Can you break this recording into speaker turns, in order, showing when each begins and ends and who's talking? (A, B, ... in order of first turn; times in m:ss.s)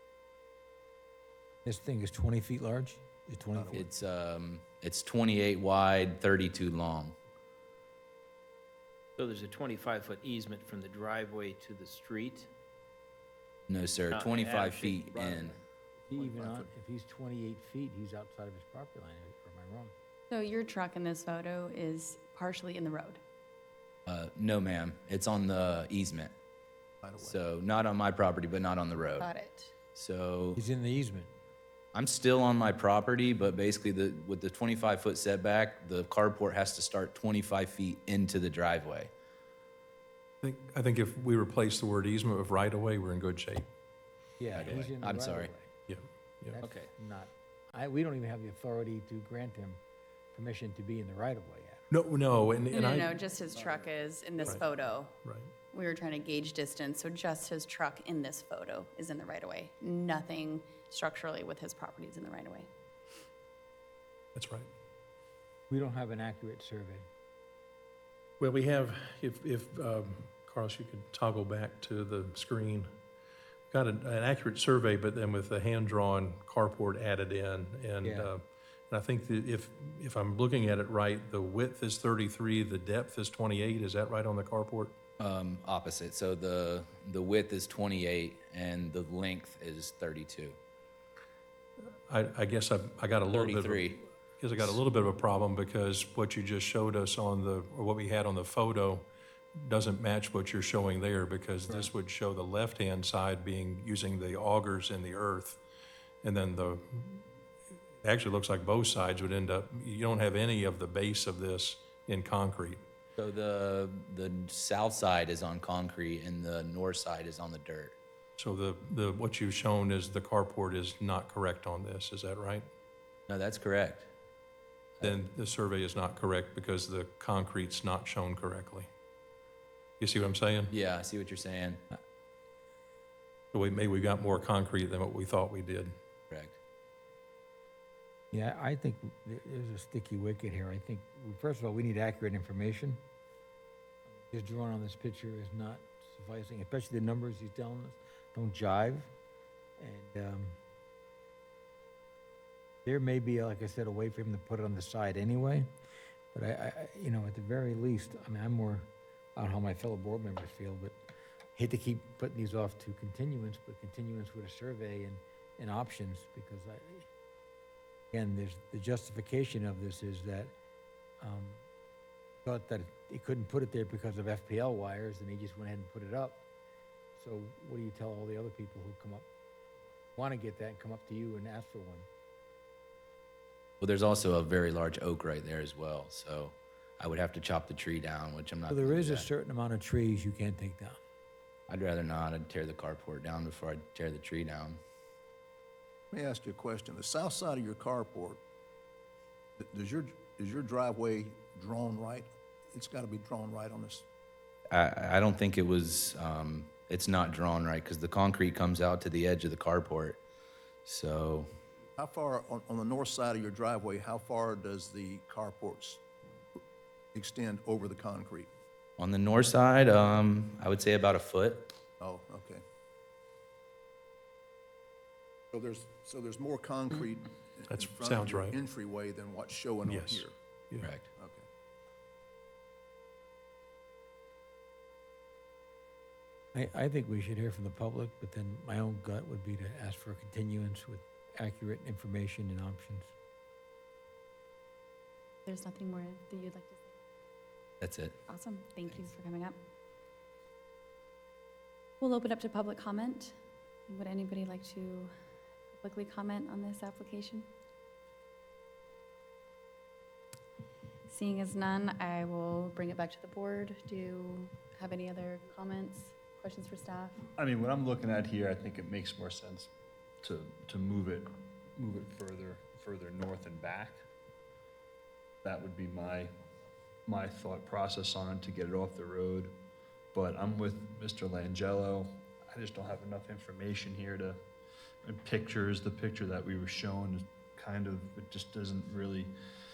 0:01.6-0:03.9 A
0:03.7-0:07.2 B
0:09.2-0:12.5 C
0:13.7-0:15.6 B
0:14.1-0:15.4 C
0:16.0-0:19.9 A
0:16.2-0:16.7 D
0:20.3-0:23.2 E
0:24.1-0:26.3 B
0:27.0-0:27.4 D
0:27.2-0:29.3 B
0:29.2-0:29.7 E
0:29.9-0:30.6 B
0:30.6-0:31.3 A
0:31.9-0:39.1 B
0:40.4-0:43.7 F
0:44.4-0:45.7 A
0:44.5-0:45.5 B
0:45.9-0:46.6 F
0:46.5-0:49.8 A
0:46.6-0:46.9 B
0:50.3-0:51.8 A
0:51.9-0:53.1 F
0:52.7-0:55.2 E
0:55.2-0:55.5 F
0:55.7-1:02.7 E
1:04.3-1:04.7 F
1:05.7-1:07.0 A
1:08.4-1:12.9 F
1:13.7-1:24.9 F
1:18.0-1:18.3 A
1:25.2-1:30.6 B
1:32.1-1:45.6 F
1:33.3-1:34.0 B
1:46.2-1:47.2 F
1:48.0-1:52.8 F
1:53.2-1:58.0 B
1:58.4-2:02.7 F
2:03.3-2:04.1 B
2:05.0-2:08.9 F
2:10.0-2:10.7 F
2:10.7-2:11.8 B
2:13.5-2:15.9 F
2:16.3-2:16.6 B
2:18.3-2:23.0 A
2:24.2-2:29.1 A
2:29.8-2:30.6 A
2:32.8-2:35.7 A
2:36.3-2:41.0 A
2:41.5-2:47.1 A
2:48.1-2:50.5 A
2:51.2-2:51.6 A
2:52.4-2:56.5 A
2:57.2-2:59.2 A
3:00.2-3:02.0 A
3:03.8-3:09.3 B
3:08.7-3:11.0 A
3:11.7-3:14.8 B
3:16.1-3:18.4 D
3:19.6-3:24.0 D
3:24.7-3:30.2 B
3:30.8-3:31.5 B
3:32.0-3:36.0 D
3:37.1-3:38.5 D
3:39.0-3:41.7 B
3:42.0-3:42.6 D
3:45.5-3:50.3 D
3:47.7-3:48.6 F
3:49.8-3:50.9 F
3:50.8-3:51.0 B
3:51.2-3:51.4 D
3:56.5-4:03.1 A
4:05.4-4:06.9 E
4:07.8-4:08.2 B
4:08.3-4:09.6 E
4:12.0-4:13.4 E
4:13.9-4:15.1 E
4:15.8-4:17.5 E
4:21.1-4:27.3 E
4:27.4-4:29.7 G
4:30.2-4:34.0 G
4:35.4-4:36.3 G
4:37.1-4:39.6 G
4:40.1-4:44.4 G
4:45.0-4:49.3 G